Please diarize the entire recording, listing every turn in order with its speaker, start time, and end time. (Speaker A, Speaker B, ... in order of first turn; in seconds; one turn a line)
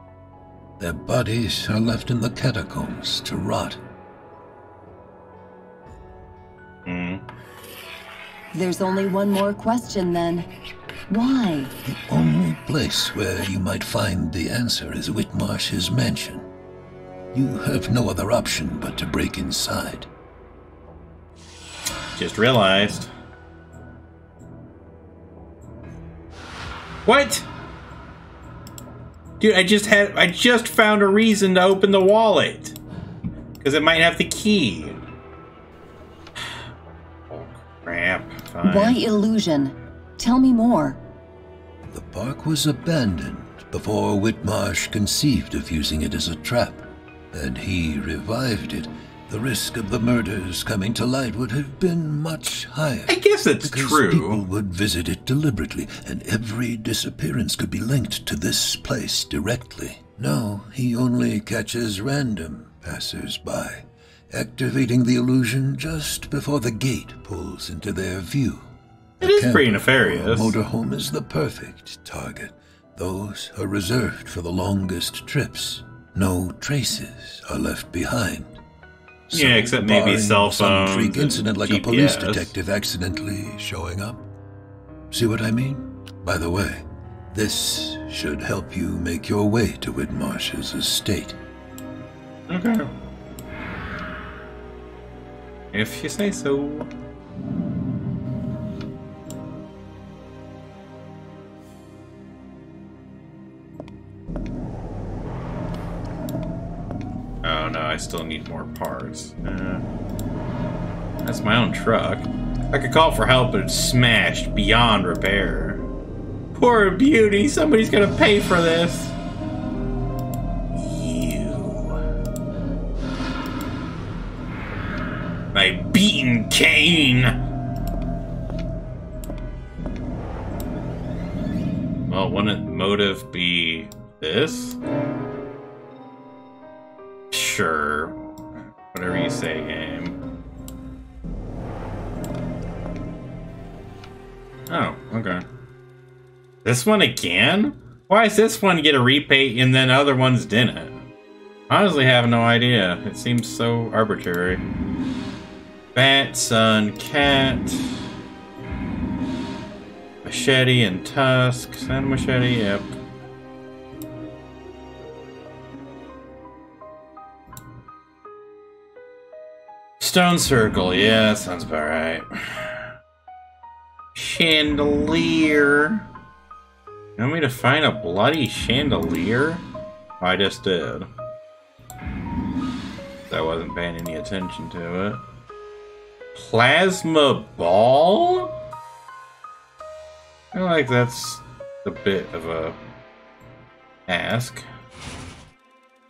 Speaker A: 0.8-3.8
Speaker B: 6.8-7.2
Speaker C: 8.5-10.5
Speaker C: 11.1-11.7
Speaker A: 11.8-16.4
Speaker A: 17.3-20.1
Speaker B: 22.1-23.1
Speaker B: 27.0-27.4
Speaker B: 29.4-32.8
Speaker B: 33.6-35.0
Speaker B: 37.3-39.0
Speaker C: 38.6-41.0
Speaker A: 41.9-68.7
Speaker B: 53.1-54.4
Speaker A: 69.2-78.6
Speaker B: 69.2-70.6
Speaker A: 79.3-84.2
Speaker B: 79.3-82.5
Speaker A: 85.1-91.4
Speaker B: 92.5-92.8
Speaker B: 95.7-96.9
Speaker B: 107.4-109.8
Speaker B: 111.2-115.8
Speaker B: 116.5-119.2
Speaker B: 120.7-122.0
Speaker B: 125.5-127.3
Speaker B: 132.1-134.8
Speaker B: 137.3-138.2
Speaker B: 138.9-140.2
Speaker B: 144.7-145.4
Speaker B: 146.6-151.0
Speaker B: 151.7-154.6
Speaker B: 155.9-157.9
Speaker B: 160.2-162.9
Speaker B: 170.0-172.9
Speaker B: 174.1-176.0
Speaker B: 177.2-179.6
Speaker B: 180.2-181.1
Speaker B: 183.3-185.2
Speaker B: 186.3-188.5
Speaker B: 190.5-192.8
Speaker B: 194.1-194.6